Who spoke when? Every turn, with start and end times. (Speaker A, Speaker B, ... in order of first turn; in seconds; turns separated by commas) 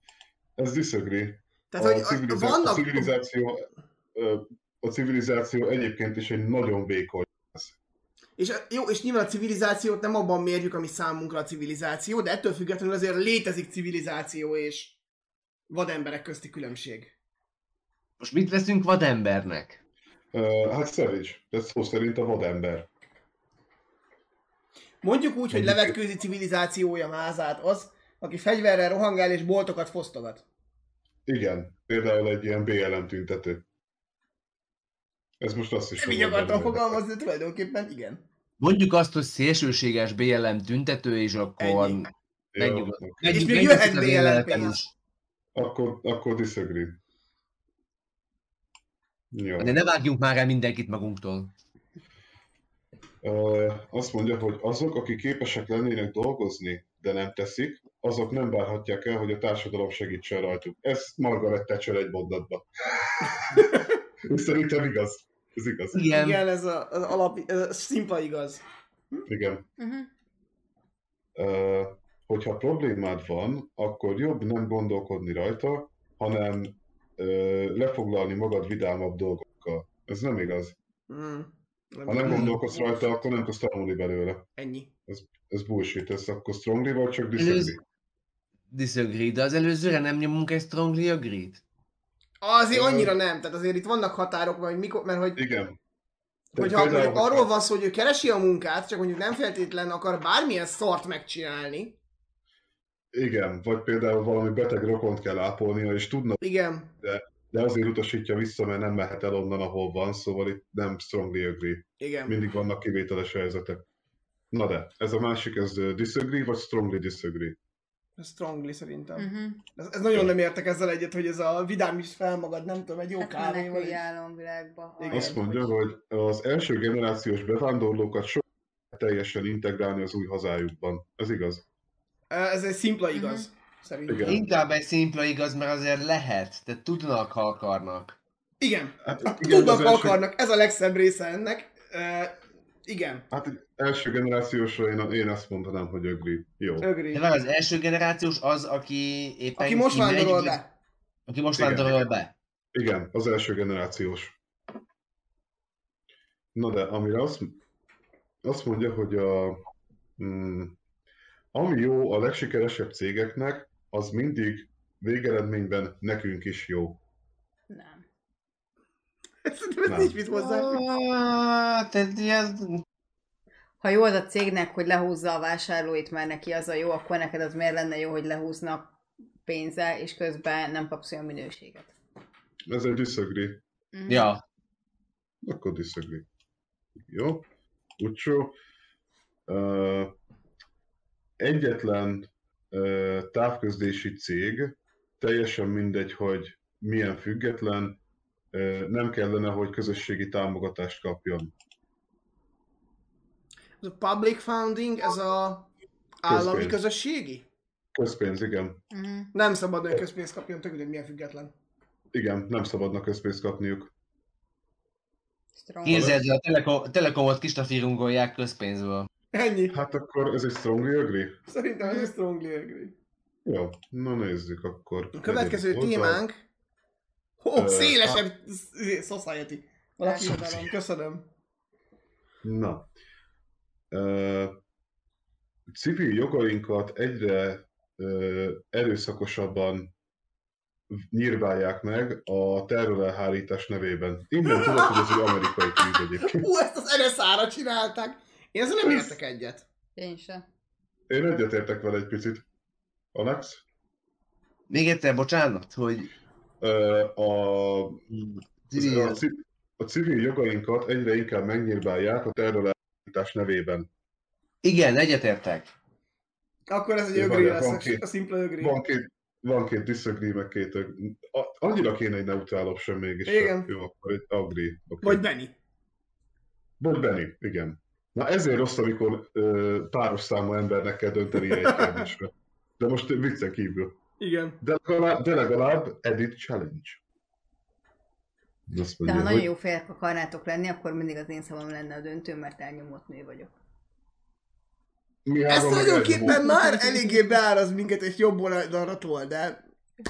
Speaker A: 0.6-7.8, Speaker B: 1.7-3.1, Speaker B: 8.4-15.0, Speaker B: 15.7-17.1, Speaker C: 18.2-19.8, Speaker A: 20.3-22.9, Speaker B: 25.0-30.4, Speaker A: 25.5-25.9, Speaker A: 31.3-33.6, Speaker A: 35.4-37.0, Speaker B: 36.0-38.2, Speaker C: 38.6-44.9, Speaker B: 41.6-42.1, Speaker A: 42.5-43.5, Speaker B: 43.3-44.8, Speaker A: 45.5-47.0, Speaker A: 49.3-49.8, Speaker C: 49.6-51.5, Speaker A: 53.2-66.0, Speaker C: 65.9-66.4, Speaker B: 66.0-69.3, Speaker A: 69.3-69.7, Speaker D: 69.8-70.1, Speaker A: 71.4-80.8, Speaker B: 81.1-83.1, Speaker A: 82.1-84.5, Speaker C: 82.3-82.5, Speaker B: 84.6-84.9, Speaker A: 85.1-87.8, Speaker C: 87.4-87.8, Speaker C: 88.7-91.6, Speaker B: 92.4-95.4, Speaker A: 92.7-93.1, Speaker A: 95.4-95.8, Speaker B: 96.5-102.0, Speaker A: 96.5-97.5, Speaker A: 103.1-106.4, Speaker B: 106.4-106.9, Speaker A: 107.0-113.8, Speaker B: 112.0-112.4, Speaker A: 114.5-117.6, Speaker B: 118.2-124.0, Speaker D: 119.2-119.6, Speaker D: 123.2-125.7, Speaker B: 125.0-125.4, Speaker A: 125.1-131.6, Speaker B: 132.3-134.4, Speaker D: 133.1-133.5, Speaker A: 134.1-134.4, Speaker C: 134.2-138.2, Speaker B: 138.6-143.3, Speaker A: 139.0-140.2, Speaker A: 143.3-146.9, Speaker B: 146.8-147.2, Speaker C: 147.1-150.6, Speaker B: 149.6-150.7, Speaker C: 151.3-152.3, Speaker A: 151.6-152.0, Speaker A: 152.7-154.4, Speaker A: 156.6-157.6, Speaker A: 158.4-159.6, Speaker A: 160.2-160.8, Speaker A: 161.5-167.0, Speaker D: 167.7-168.0, Speaker B: 169.4-170.8, Speaker A: 169.9-170.2, Speaker C: 170.3-172.8, Speaker D: 173.8-181.9, Speaker A: 182.7-183.6, Speaker D: 183.9-184.3, Speaker C: 184.1-184.4, Speaker A: 185.4-186.3, Speaker A: 187.0-187.4, Speaker A: 188.0-188.6, Speaker A: 189.5-190.1, Speaker A: 191.4-198.0, Speaker A: 198.5-201.5, Speaker B: 203.8-205.7, Speaker B: 206.2-207.5, Speaker A: 206.3-206.8, Speaker A: 207.9-208.8, Speaker D: 208.9-209.3, Speaker B: 209.3-211.5, Speaker A: 212.1-213.9, Speaker D: 215.6-216.2, Speaker C: 215.8-219.1, Speaker A: 215.9-216.2, Speaker B: 219.3-219.8, Speaker A: 219.7-221.4, Speaker B: 221.5-222.9, Speaker D: 221.8-222.1, Speaker A: 223.4-226.2, Speaker B: 225.1-226.4, Speaker B: 227.4-231.3, Speaker A: 227.6-228.2, Speaker D: 230.0-230.7, Speaker A: 232.4-232.9, Speaker A: 233.9-234.6, Speaker A: 235.7-239.9, Speaker A: 240.9-246.5, Speaker B: 244.4-249.7, Speaker A: 248.9-249.1, Speaker D: 250.0-250.4, Speaker A: 251.1-252.4, Speaker A: 253.1-253.6, Speaker C: 254.7-256.1, Speaker A: 256.6-258.0, Speaker C: 258.1-259.2, Speaker A: 258.7-263.9, Speaker C: 264.6-265.7, Speaker B: 266.7-268.8, Speaker A: 267.1-268.1, Speaker A: 268.6-275.2, Speaker B: 273.3-273.7, Speaker B: 275.0-275.5, Speaker A: 276.8-284.0, Speaker B: 281.5-282.1, Speaker B: 284.2-284.6, Speaker A: 284.6-287.0, Speaker A: 288.7-289.5, Speaker D: 289.0-293.5, Speaker A: 295.2-296.4, Speaker B: 295.5-299.6, Speaker D: 296.2-297.4